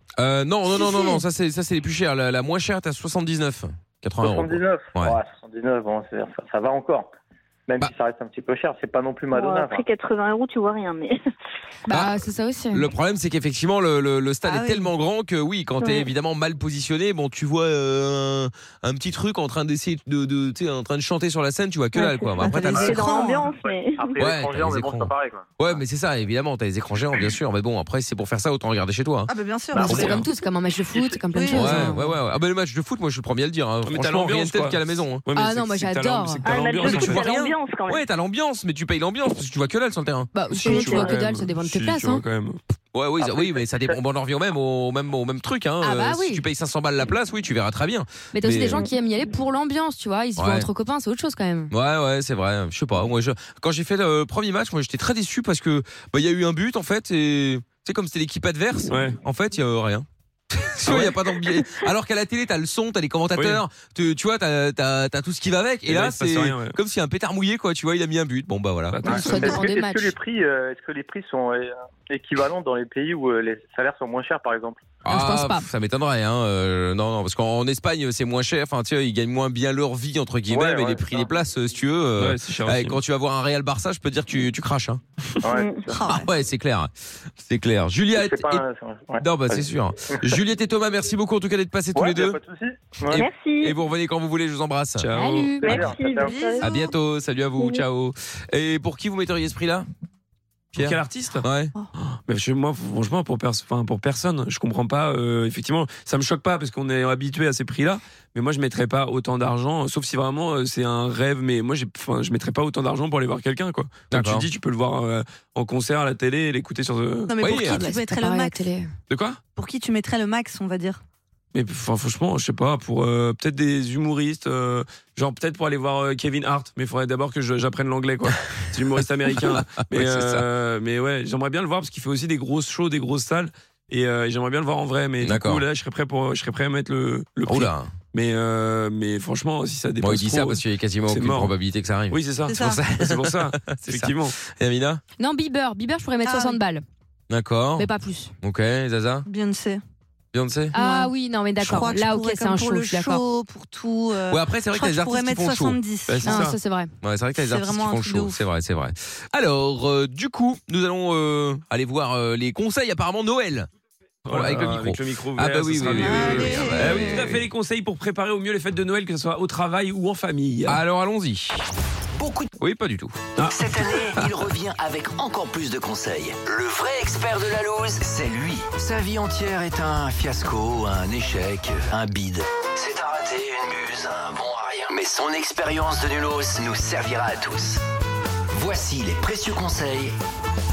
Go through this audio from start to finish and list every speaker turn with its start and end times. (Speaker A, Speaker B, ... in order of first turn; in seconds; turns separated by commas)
Speaker A: 0.2-5.2, Speaker B: 0.8-1.2, Speaker C: 4.2-7.1, Speaker C: 7.7-9.8, Speaker D: 9.3-11.2, Speaker E: 11.9-12.9, Speaker A: 11.9-12.2, Speaker A: 12.7-23.2, Speaker B: 14.4-14.9, Speaker D: 15.8-16.1, Speaker B: 22.0-23.5, Speaker C: 22.7-25.8, Speaker D: 22.7-24.2, Speaker A: 24.2-29.3, Speaker B: 29.3-30.2, Speaker C: 29.7-30.3, Speaker E: 29.8-32.1, Speaker A: 29.9-30.2, Speaker C: 30.9-31.2, Speaker B: 31.3-31.9, Speaker A: 31.5-35.2, Speaker F: 33.8-37.3, Speaker E: 35.4-36.5, Speaker D: 36.4-38.0, Speaker A: 36.5-40.3, Speaker E: 40.3-42.2, Speaker F: 40.5-42.6, Speaker D: 40.7-41.1, Speaker A: 42.9-48.8, Speaker C: 43.3-43.9, Speaker E: 45.8-46.4, Speaker E: 48.3-51.7, Speaker A: 50.4-50.7, Speaker A: 51.7-69.2, Speaker F: 58.9-59.2, Speaker F: 60.9-61.1, Speaker F: 63.4-63.6, Speaker F: 65.9-66.8, Speaker F: 68.9-69.7, Speaker E: 69.0-70.2, Speaker C: 69.1-75.0, Speaker A: 75.0-85.0, Speaker E: 75.1-75.7, Speaker C: 80.5-81.3, Speaker F: 82.2-83.0, Speaker C: 85.4-86.2, Speaker D: 85.5-85.9, Speaker B: 85.9-86.3, Speaker A: 86.0-88.6, Speaker C: 88.1-90.4, Speaker A: 89.2-92.4, Speaker C: 92.0-93.2, Speaker A: 93.1-95.1, Speaker D: 93.1-93.7, Speaker F: 95.0-95.8, Speaker E: 95.2-95.8, Speaker C: 95.6-96.5, Speaker D: 95.6-96.9, Speaker B: 96.0-96.9, Speaker A: 96.6-99.9, Speaker F: 100.8-101.5, Speaker A: 100.8-101.7, Speaker F: 102.0-117.3, Speaker A: 114.1-114.5, Speaker B: 117.3-118.7, Speaker A: 117.4-117.8, Speaker E: 117.6-118.9, Speaker F: 119.1-119.4, Speaker B: 119.6-121.0, Speaker F: 121.5-141.5, Speaker A: 129.5-130.4, Speaker A: 135.2-135.6, Speaker A: 137.5-137.9, Speaker A: 140.0-145.0, Speaker F: 142.1-144.3, Speaker B: 142.5-142.8, Speaker E: 145.2-146.8, Speaker B: 146.2-146.6, Speaker A: 147.3-147.9, Speaker E: 147.8-148.3, Speaker A: 148.4-149.3, Speaker B: 149.3-149.8, Speaker A: 150.3-150.7, Speaker E: 150.7-153.2, Speaker B: 150.7-156.6, Speaker A: 154.3-155.8, Speaker F: 156.1-156.6, Speaker E: 156.2-156.9, Speaker A: 157.0-163.7, Speaker B: 157.4-158.4, Speaker F: 164.3-170.8, Speaker A: 164.3-167.5, Speaker B: 165.9-167.3, Speaker A: 170.7-171.6, Speaker G: 172.2-172.5, Speaker A: 172.6-173.2, Speaker G: 173.5-187.8, Speaker G: 188.5-190.2